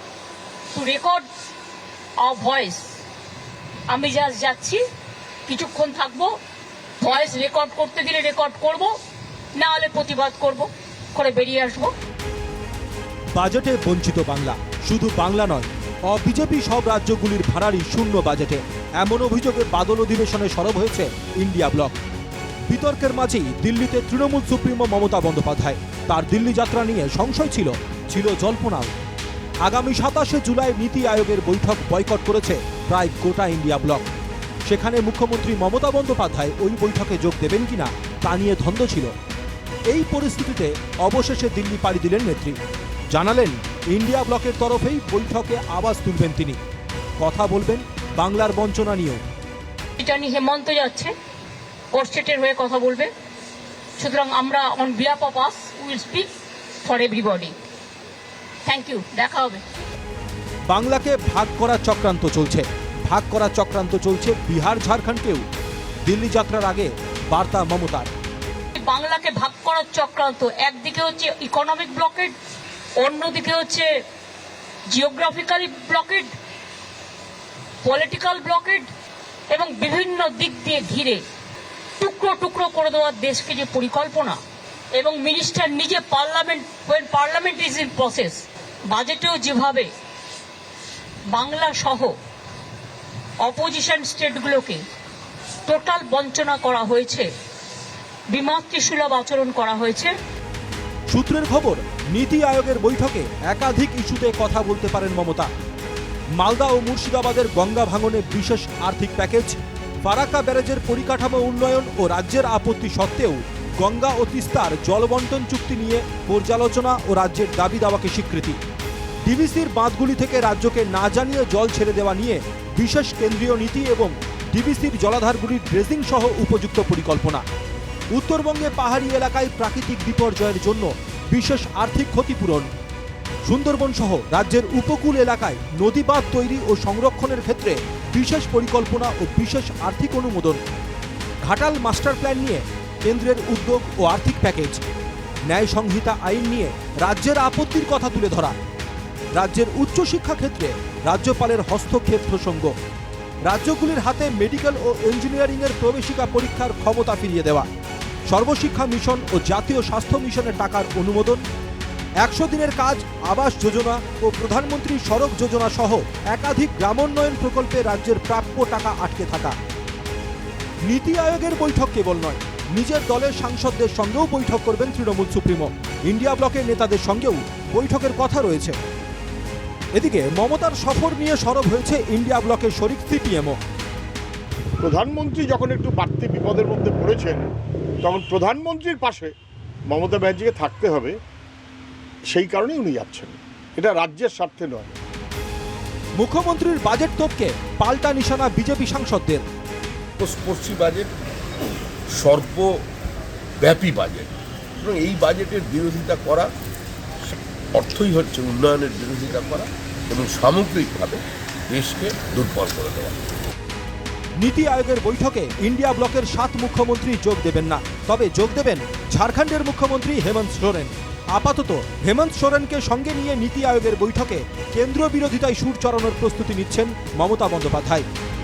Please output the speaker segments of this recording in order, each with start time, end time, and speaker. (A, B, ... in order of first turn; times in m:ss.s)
0:00.7-0:01.2 A
0:02.2-0:02.8 A
0:03.9-0:04.8 A
0:05.5-0:06.3 A
0:07.0-0:09.0 A
0:09.6-0:11.9 A
0:13.3-0:22.0 B
0:22.7-0:28.9 B
0:29.6-0:34.1 B
0:34.6-0:39.1 B
0:39.9-0:42.6 B
0:43.1-0:46.6 B
0:47.2-0:49.2 B
0:50.0-0:51.1 A
0:51.9-0:53.1 A
0:54.0-0:56.3 A
0:56.8-0:57.6 A
0:58.6-0:59.6 A
1:00.7-1:05.4 B
1:06.0-1:08.1 B
1:08.7-1:12.3 A
1:13.0-1:13.9 A
1:14.9-1:16.3 A
1:17.8-1:18.9 A
1:19.5-1:21.2 A
1:22.0-1:24.4 A
1:25.0-1:29.9 A
1:31.3-1:32.2 A
1:33.4-1:34.8 A
1:35.6-1:37.3 A
1:38.3-1:40.1 A
1:41.1-1:45.5 B
1:46.4-1:58.6 B
1:59.2-2:07.4 B
2:08.1-2:12.7 B
2:13.4-2:20.6 B
2:21.4-2:24.8 B
2:25.5-2:28.6 B
2:29.3-2:32.7 B
2:33.4-2:37.7 B
2:38.3-2:41.4 B
2:42.2-2:49.6 B
2:50.8-2:58.8 B
2:59.9-3:03.6 B
3:04.8-3:07.4 C
3:08.0-3:09.3 C
3:09.9-3:11.2 C
3:12.3-3:15.0 C
3:16.2-3:19.4 B
3:20.2-3:21.1 D
3:22.1-3:22.7 D
3:23.6-3:26.5 D
3:27.3-3:33.2 D
3:34.4-3:48.0 B